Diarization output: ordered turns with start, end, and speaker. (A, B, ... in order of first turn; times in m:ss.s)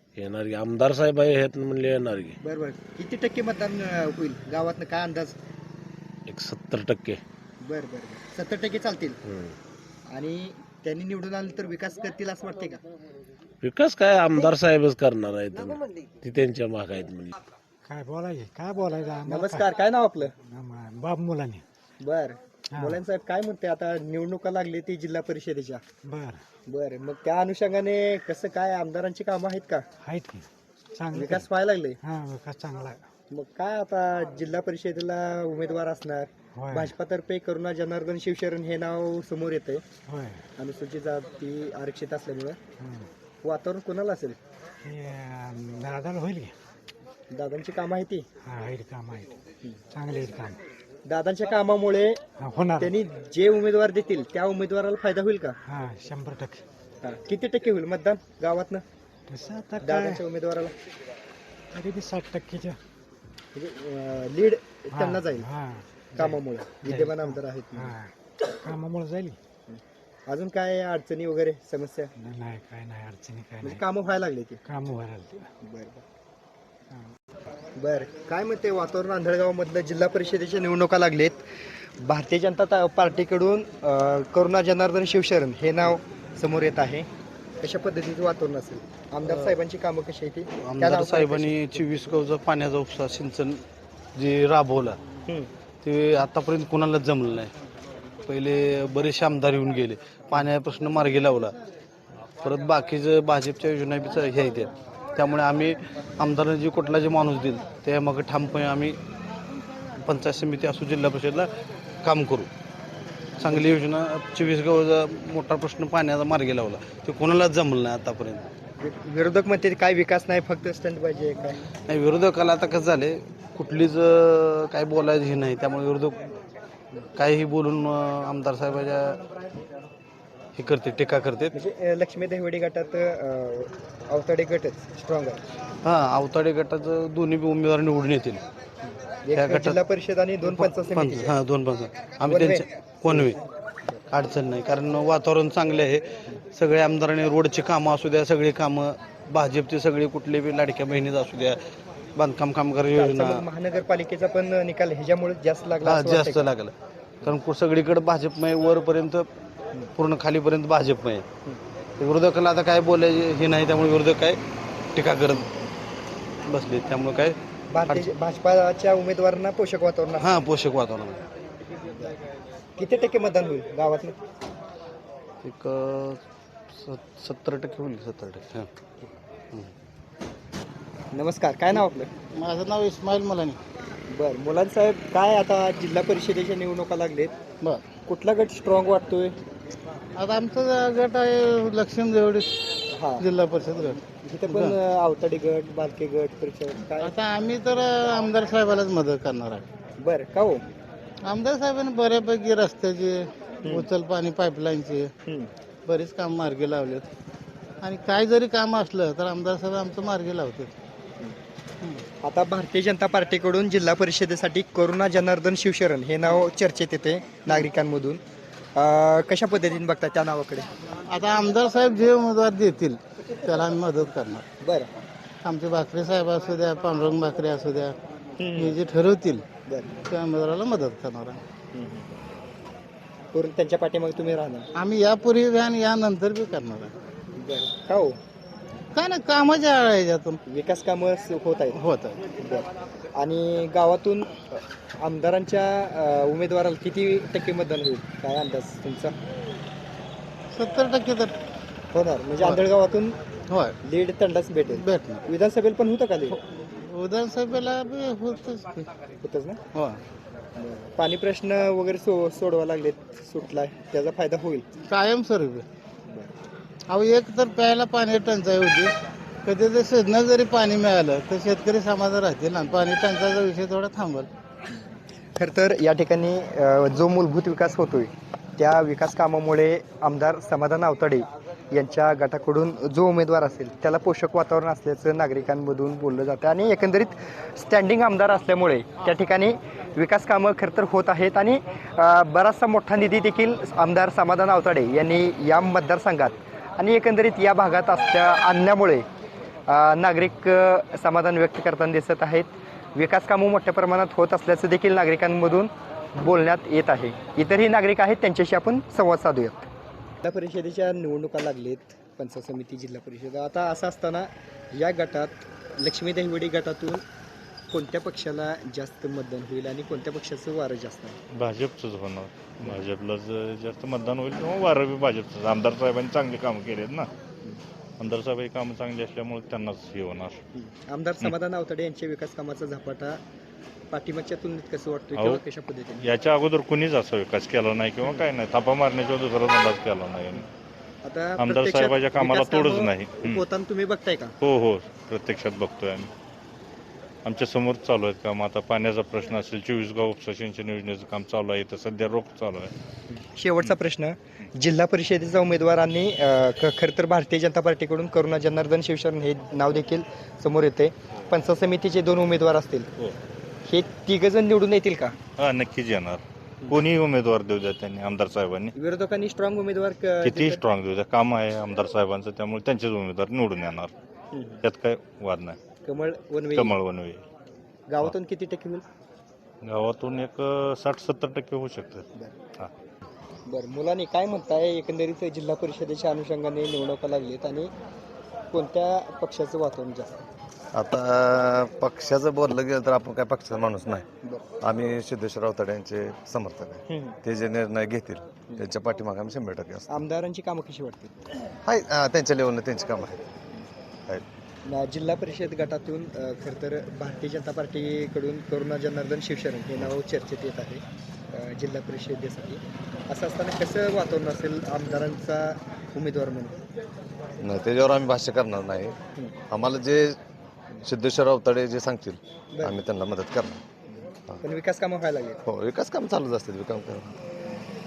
0:00.2-0:02.3 A
0:02.4-0:05.4 B
0:06.3-0:07.2 A
0:07.6-0:09.2 B
0:09.3-0:09.5 A
0:10.1-0:12.8 B
0:13.6-0:17.3 A
0:17.9-0:19.7 C
0:19.3-0:20.3 B
0:20.4-0:21.6 C
0:22.0-0:25.8 B
0:26.0-0:26.4 C
0:26.7-0:29.8 B
0:30.0-0:31.4 C
0:31.1-0:32.0 B
0:32.0-0:33.0 C
0:33.3-0:39.8 B
0:36.6-0:36.9 C
0:40.1-0:40.4 C
0:40.6-0:42.6 B
0:42.8-0:43.1 C
0:43.4-0:44.4 B
0:44.8-0:46.5 C
0:47.3-0:48.2 B
0:48.4-0:49.3 C
0:49.9-0:50.6 C
0:51.1-0:52.2 B
0:52.4-0:52.9 C
0:52.8-0:55.6 B
0:55.7-0:56.6 C
0:57.0-0:58.8 B
0:59.3-1:00.2 C
0:59.8-1:00.7 B
1:01.7-1:02.8 C
1:03.5-1:05.4 B
1:04.9-1:09.4 C
1:06.2-1:07.9 B
1:09.7-1:12.1 B
1:12.2-1:13.8 C
1:13.6-1:14.6 B
1:14.6-1:15.5 C
1:15.6-1:16.0 B
1:17.8-1:21.4 B
1:22.0-1:27.0 B
1:27.6-1:31.8 B
1:30.6-1:33.6 D
1:34.2-1:35.0 D
1:35.8-1:37.5 D
1:38.2-1:41.5 D
1:42.4-1:48.9 D
1:50.0-1:51.5 D
1:52.0-1:52.5 D
1:53.4-1:53.7 B
1:53.4-1:58.5 D
1:58.8-2:01.6 B
2:01.9-2:06.3 D
2:07.2-2:09.2 D
2:10.5-2:11.5 D
2:11.5-2:15.4 B
2:15.8-2:18.4 D
2:19.2-2:21.3 B
2:19.3-2:19.8 D
2:20.4-2:23.4 D
2:22.2-2:23.3 B
2:24.1-2:31.6 D
2:32.2-2:33.4 D
2:32.9-2:36.4 B
2:35.8-2:39.3 D
2:40.0-2:41.2 D
2:42.0-2:44.4 D
2:44.9-2:45.5 D
2:46.4-2:47.4 D
2:47.7-2:50.4 B
2:50.2-2:51.2 D
2:51.9-2:52.1 B
2:52.8-2:54.2 B
2:55.4-2:56.2 D
2:56.7-2:58.7 D
3:01.1-3:02.1 B
3:02.4-3:03.6 E
3:04.1-3:07.4 B
3:08.1-3:09.3 B
3:10.2-3:12.6 E
3:12.9-3:13.2 B
3:13.2-3:14.8 E
3:14.2-3:17.2 B
3:17.0-3:19.6 E
3:20.0-3:20.6 B
3:21.3-3:25.1 E
3:23.6-3:23.9 B
3:25.8-3:27.1 E
3:27.8-3:30.7 E
3:32.2-3:38.2 B
3:38.8-3:40.7 B
3:41.1-3:44.4 E
3:44.6-3:44.9 B
3:45.4-3:48.0 E
3:48.4-3:48.8 B
3:48.5-3:49.4 E
3:50.1-3:51.4 E
3:51.7-3:52.1 B
3:53.3-3:54.7 B
3:54.7-3:56.9 E
3:57.4-3:58.2 B
3:58.9-4:00.4 E
4:00.5-4:01.8 B
4:01.7-4:02.2 E
4:02.4-4:09.1 B
4:10.5-4:11.3 E
4:11.9-4:13.2 B
4:13.5-4:13.8 E
4:13.8-4:16.4 B
4:14.7-4:15.2 E
4:16.6-4:18.9 E
4:19.2-4:19.6 B
4:19.7-4:20.0 E
4:20.6-4:24.6 B
4:24.9-4:25.6 E
4:26.9-4:28.9 E
4:29.4-4:34.3 E
4:35.4-4:59.0 B
4:59.7-5:09.7 B
5:10.2-5:17.0 B
5:17.7-5:21.2 B
5:21.3-5:27.1 F
5:28.0-5:30.4 F
5:30.6-5:33.2 B
5:33.9-5:36.1 B
5:35.2-5:35.4 F
5:36.0-5:40.5 F
5:41.0-5:44.3 B
5:41.4-5:43.4 F
5:44.4-5:46.1 F
5:47.2-5:52.7 F
5:53.1-6:02.9 B
6:03.7-6:05.1 B
6:05.4-6:08.7 F
6:08.8-6:10.6 B
6:10.2-6:13.9 F
6:14.3-6:14.6 B
6:14.6-6:15.6 F
6:15.8-6:16.7 B
6:16.5-6:17.2 F
6:17.9-6:18.8 B
6:19.6-6:22.0 F
6:23.5-6:27.7 B
6:28.5-6:30.2 B
6:30.7-6:34.0 G
6:34.6-6:40.0 G
6:36.9-6:37.2 B
6:39.9-6:41.1 B
6:41.6-6:43.2 G
6:44.7-6:50.8 B
6:51.3-6:56.6 B
6:57.4-6:59.0 G
6:59.5-7:00.2 G
7:00.8-7:03.6 G
7:02.5-7:02.8 B
7:03.9-7:05.4 B
7:05.4-7:07.2 G